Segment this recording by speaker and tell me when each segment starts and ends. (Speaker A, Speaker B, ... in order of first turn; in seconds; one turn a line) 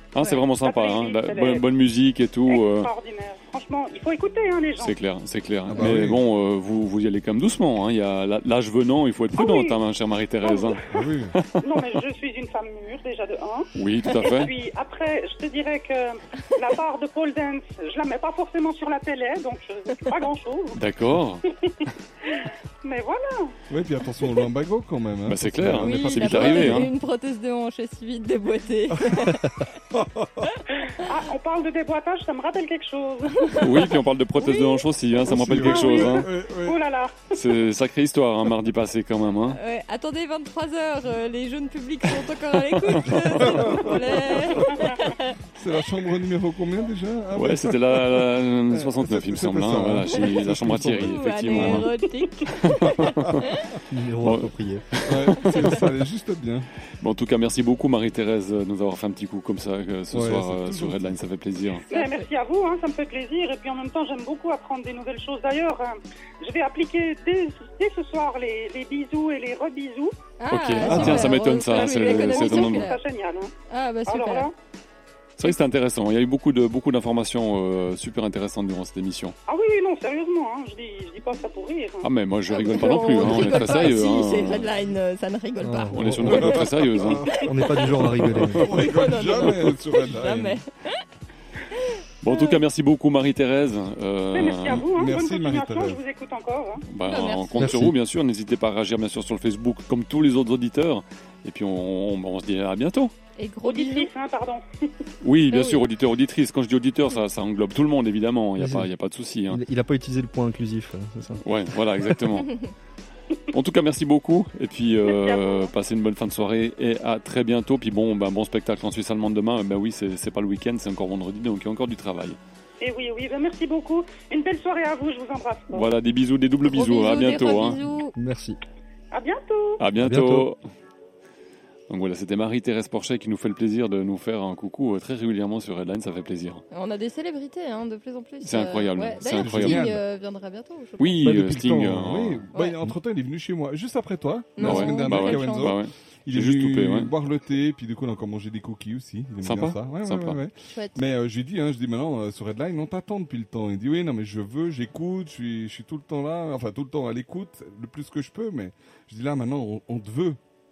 Speaker A: 0.1-2.9
Speaker B: 0.2-0.4
Speaker C: 0.6-1.7
Speaker C: 2.5-5.0
Speaker A: 4.8-11.6
Speaker D: 5.7-6.2
Speaker C: 9.3-9.8
Speaker C: 10.4-11.1
Speaker D: 10.9-11.3
Speaker C: 11.6-20.8
Speaker A: 13.8-14.5
Speaker A: 20.7-21.4
Speaker C: 21.5-23.5
Speaker D: 23.7-26.9
Speaker A: 25.3-26.9
Speaker B: 25.7-29.6
Speaker D: 29.0-29.3
Speaker D: 29.9-30.5
Speaker C: 30.9-33.9
Speaker B: 33.4-34.8
Speaker A: 33.6-36.3
Speaker D: 35.2-36.8
Speaker C: 35.5-37.3
Speaker A: 37.3-39.6
Speaker B: 39.5-45.4
Speaker A: 42.8-43.8
Speaker D: 43.1-44.8
Speaker C: 44.7-45.0
Speaker D: 45.5-51.9
Speaker A: 47.3-51.9
Speaker B: 50.1-53.8
Speaker A: 52.5-53.4
Speaker E: 53.9-54.9
Speaker A: 54.2-55.8
Speaker D: 55.0-56.7
Speaker A: 57.0-61.9
Speaker D: 60.1-61.2
Speaker C: 61.9-70.1
Speaker B: 61.9-62.3
Speaker B: 70.4-73.0
Speaker A: 70.5-72.9
Speaker D: 70.9-71.4
Speaker C: 71.6-73.5
Speaker B: 73.7-74.5
Speaker C: 74.1-74.5
Speaker A: 75.4-79.3
Speaker C: 79.5-82.1
Speaker A: 82.0-84.7
Speaker B: 82.5-86.8
Speaker E: 85.6-86.6
Speaker A: 85.9-87.4
Speaker D: 86.1-87.3
Speaker E: 87.3-88.8
Speaker B: 87.3-88.0
Speaker D: 88.4-90.6
Speaker B: 88.7-91.0
Speaker B: 91.7-92.6
Speaker A: 92.2-94.8
Speaker C: 94.3-96.8
Speaker D: 94.7-96.0
Speaker A: 96.9-103.1
Speaker B: 97.0-97.7
Speaker E: 97.6-98.0
Speaker B: 103.4-104.1
Speaker C: 103.6-104.9
Speaker A: 105.2-109.6
Speaker B: 105.5-105.8
Speaker E: 108.6-108.9
Speaker E: 109.5-111.4
Speaker A: 111.4-112.5
Speaker A: 113.5-122.4
Speaker C: 115.0-115.7
Speaker C: 122.8-125.9
Speaker A: 125.7-127.8
Speaker B: 126.6-128.1
Speaker E: 128.2-128.6
Speaker C: 129.1-129.8
Speaker A: 129.8-130.6
Speaker E: 130.0-130.5
Speaker A: 131.9-136.6
Speaker B: 136.7-141.3
Speaker A: 138.4-139.9
Speaker D: 139.3-140.0
Speaker A: 141.0-142.4
Speaker E: 141.2-142.2
Speaker D: 141.3-160.4
Speaker B: 142.5-142.8
Speaker B: 144.6-145.8
Speaker A: 144.6-147.1
Speaker A: 149.4-150.4
Speaker B: 150.7-151.0